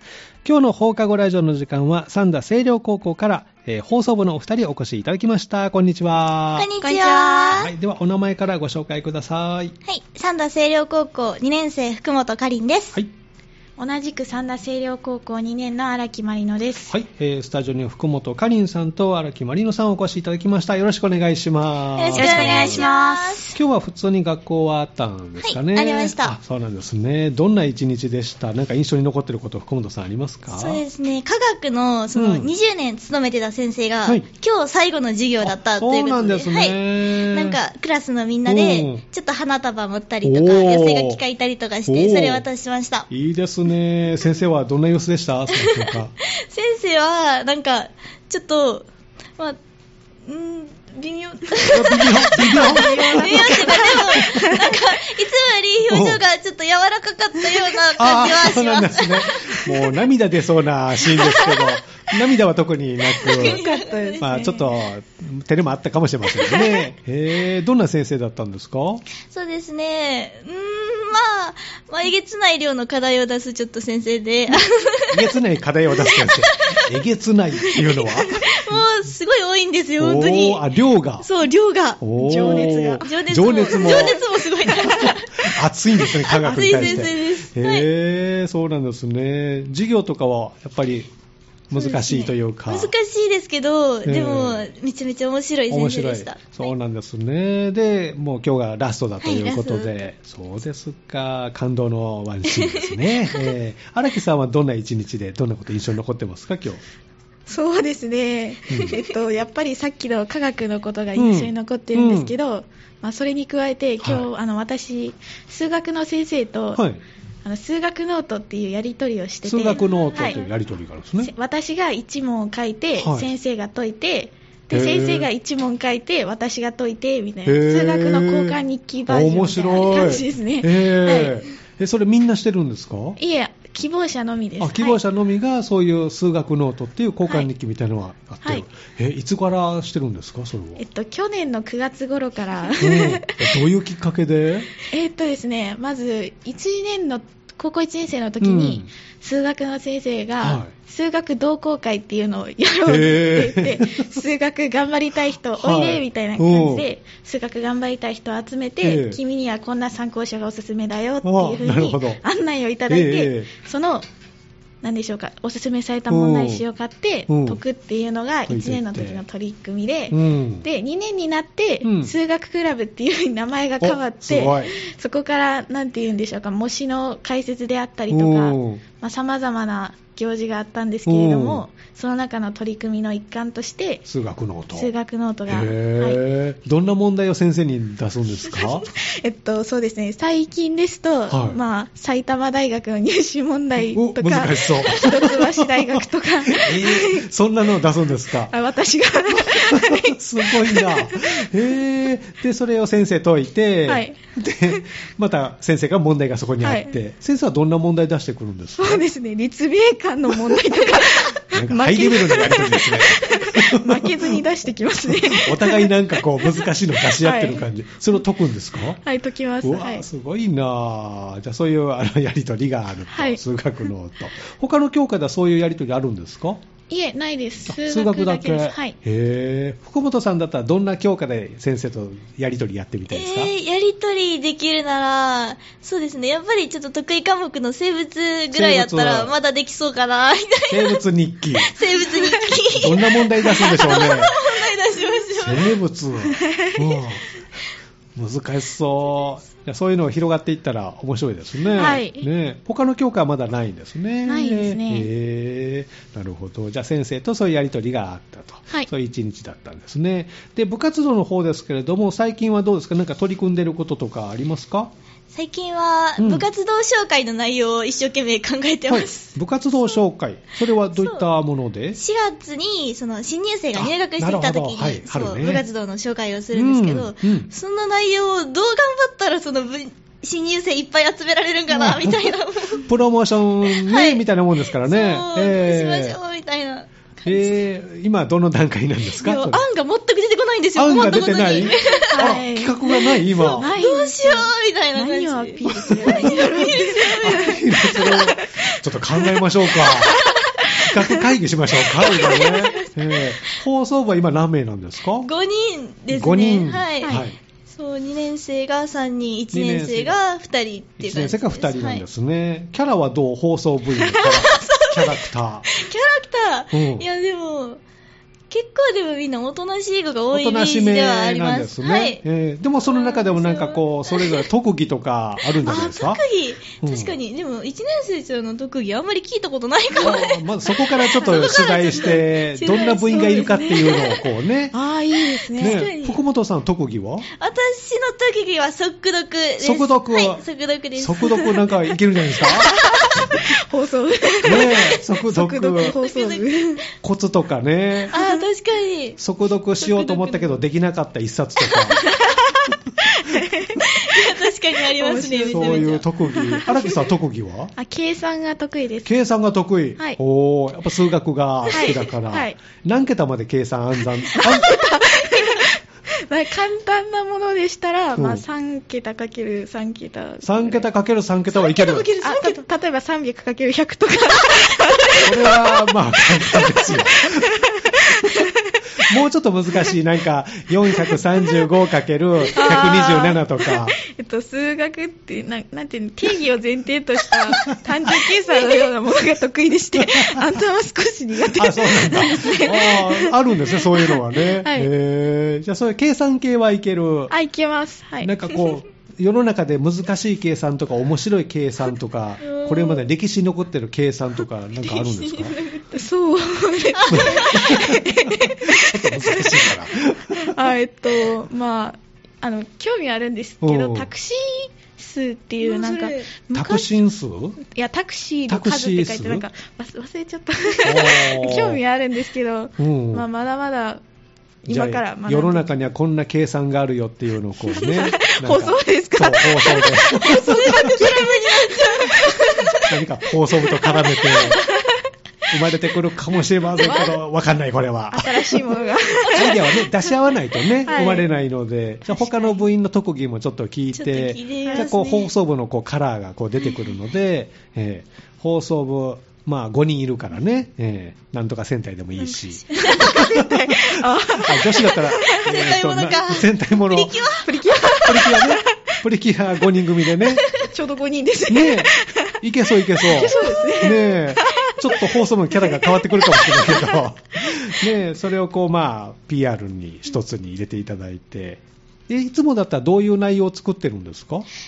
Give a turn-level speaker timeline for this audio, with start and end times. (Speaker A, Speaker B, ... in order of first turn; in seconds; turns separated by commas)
Speaker A: 0.4-6.7, Speaker B: 6.5-7.7, Speaker C: 6.8-7.6, Speaker A: 7.5-9.8, Speaker B: 9.9-13.0, Speaker C: 13.8-16.9, Speaker A: 16.9-22.9, Speaker B: 22.0-23.6, Speaker C: 22.1-23.5, Speaker A: 23.5-30.8, Speaker B: 25.4-26.4, Speaker B: 30.5-43.1, Speaker A: 32.1-32.5, Speaker A: 35.4-37.6, Speaker A: 38.5-39.0, Speaker A: 40.2-41.2, Speaker A: 41.9-42.4, Speaker A: 43.1-46.1, Speaker B: 45.6-48.9, Speaker B: 50.2-59.8, Speaker A: 51.6-54.4, Speaker C: 51.9-54.8, Speaker A: 55.9-56.2, Speaker A: 58.0-63.6, Speaker B: 63.2-64.6, Speaker C: 63.2-64.7, Speaker A: 64.2-69.0, Speaker B: 66.4-66.8, Speaker B: 69.2-75.3, Speaker A: 75.1-78.8, Speaker B: 76.0-76.9, Speaker B: 77.7-80.7, Speaker A: 80.0-81.2, Speaker B: 81.2-87.9, Speaker A: 82.0-91.1, Speaker C: 82.1-84.2, Speaker C: 84.7-85.1, Speaker A: 91.7-92.9, Speaker B: 91.7-96.7, Speaker A: 94.0-94.7, Speaker A: 95.7-106.8, Speaker B: 99.2-99.9, Speaker B: 102.5-103.5, Speaker C: 107.5-116.8, Speaker A: 108.7-109.0, Speaker A: 111.2-112.3, Speaker A: 114.0-114.3, Speaker A: 116.7-117.0, Speaker C: 117.5-120.4, Speaker A: 119.5-121.3, Speaker B: 119.7-120.5, Speaker C: 121.2-131.4, Speaker A: 123.0-123.3, Speaker A: 124.7-125.3, Speaker A: 127.5-133.2, Speaker C: 133.2-135.0, Speaker A: 134.6-140.8, Speaker C: 140.8-143.5, Speaker A: 142.8-144.7, Speaker C: 144.9-164.1, Speaker A: 148.4-148.9, Speaker A: 150.4-150.7, Speaker A: 152.9-154.1, Speaker A: 155.6-156.9, Speaker A: 158.8-159.2, Speaker A: 161.2-162.2, Speaker A: 162.9-163.5, Speaker C: 164.8-184.1, Speaker A: 166.1-166.6, Speaker A: 167.3-167.6, Speaker A: 168.5-169.2, Speaker A: 170.1-170.7, Speaker A: 171.8-172.1, Speaker A: 173.8-174.7, Speaker A: 178.1-178.8, Speaker A: 181.1-181.7, Speaker A: 184.1-184.9, Speaker C: 184.7-186.2, Speaker A: 185.5-188.9, Speaker C: 188.5-197.3, Speaker A: 191.3-191.6, Speaker A: 193.9-198.6, Speaker C: 198.5-201.4, Speaker A: 199.3-209.0, Speaker C: 203.9-204.2, Speaker C: 206.6-206.9, Speaker C: 208.8-216.7, Speaker A: 210.3-214.4, Speaker A: 215.1-219.0, Speaker C: 217.2-217.7, Speaker C: 219.0-220.1, Speaker A: 219.6-226.6, Speaker C: 223.1-223.4, Speaker C: 226.9-228.9, Speaker A: 227.7-233.5, Speaker B: 233.1-241.0, Speaker A: 238.5-239.3, Speaker A: 240.7-241.8, Speaker B: 241.6-245.8, Speaker C: 242.2-242.5, Speaker A: 242.8-244.3, Speaker A: 245.3-247.4, Speaker C: 246.3-246.8, Speaker A: 248.2-264.9, Speaker C: 251.8-252.2, Speaker C: 254.2-255.1, Speaker B: 265.3-269.3, Speaker A: 266.2-266.4, Speaker A: 268.9-272.0, Speaker B: 270.9-271.2, Speaker B: 271.9-282.9, Speaker A: 273.8-275.6, Speaker A: 276.5-277.5, Speaker A: 281.7-282.3, Speaker A: 282.8-286.2, Speaker B: 283.7-284.2, Speaker B: 284.8-287.6, Speaker A: 287.2-289.6, Speaker B: 289.2-292.3, Speaker A: 290.8-293.7, Speaker C: 292.1-292.8, Speaker B: 292.8-297.6, Speaker C: 293.6-301.2, Speaker A: 296.1-296.7, Speaker A: 297.2-305.3, Speaker C: 302.0-302.5, Speaker B: 302.0-303.6, Speaker B: 305.2-312.0, Speaker A: 306.1-307.4, Speaker C: 307.0-307.3, Speaker A: 309.5-310.2, Speaker A: 311.0-315.7, Speaker B: 314.0-317.8, Speaker A: 316.7-317.1, Speaker B: 318.5-322.2, Speaker A: 320.3-326.2, Speaker B: 322.8-324.4, Speaker B: 325.6-334.2, Speaker A: 326.8-327.2, Speaker A: 330.0-334.7, Speaker C: 334.7-335.9, Speaker B: 335.6-336.2, Speaker A: 335.6-337.3, Speaker B: 337.4-341.6, Speaker A: 339.6-340.4, Speaker A: 340.9-342.7, Speaker C: 342.4-346.8, Speaker A: 344.4-345.9, Speaker B: 345.8-346.6, Speaker A: 347.0-348.1, Speaker C: 348.1-348.4, Speaker B: 348.1-349.2, Speaker A: 349.2-352.0, Speaker B: 349.8-350.5, Speaker C: 352.0-357.0, Speaker B: 353.8-356.1, Speaker A: 355.5-357.7, Speaker C: 357.8-359.1, Speaker A: 359.0-364.8, Speaker C: 361.7-362.6, Speaker C: 364.3-370.8, Speaker A: 368.2-368.4, Speaker A: 370.4-372.1, Speaker B: 371.5-372.6, Speaker C: 372.2-379.0, Speaker A: 375.2-377.5, Speaker A: 379.0-384.0, Speaker C: 382.5-394.9, Speaker A: 389.9-390.4, Speaker A: 391.5-397.3, Speaker C: 397.3-398.8, Speaker A: 398.2-405.6, Speaker B: 402.4-403.0, Speaker B: 404.8-405.9, Speaker C: 405.9-409.7, Speaker B: 407.0-407.6, Speaker A: 407.1-410.6, Speaker C: 410.4-417.0, Speaker A: 413.6-414.1, Speaker B: 415.6-416.3, Speaker A: 416.5-417.6, Speaker C: 417.6-424.0, Speaker A: 418.5-419.4, Speaker A: 420.8-421.8, Speaker A: 422.8-423.2, Speaker C: 424.6-425.7, Speaker A: 424.6-431.1, Speaker C: 427.8-432.9, Speaker B: 430.3-432.7, Speaker A: 432.6-434.6, Speaker C: 433.5-435.0, Speaker A: 435.5-460.4, Speaker C: 436.8-437.1, Speaker C: 438.1-440.1, Speaker C: 440.9-441.3, Speaker C: 442.1-442.6, Speaker B: 443.9-445.2, Speaker C: 444.6-445.3, Speaker B: 452.2-453.1, Speaker C: 452.7-455.6, Speaker B: 455.3-457.6, Speaker C: 457.4-458.6, Speaker C: 460.4-462.3, Speaker A: 461.5-474.5, Speaker C: 463.0-467.0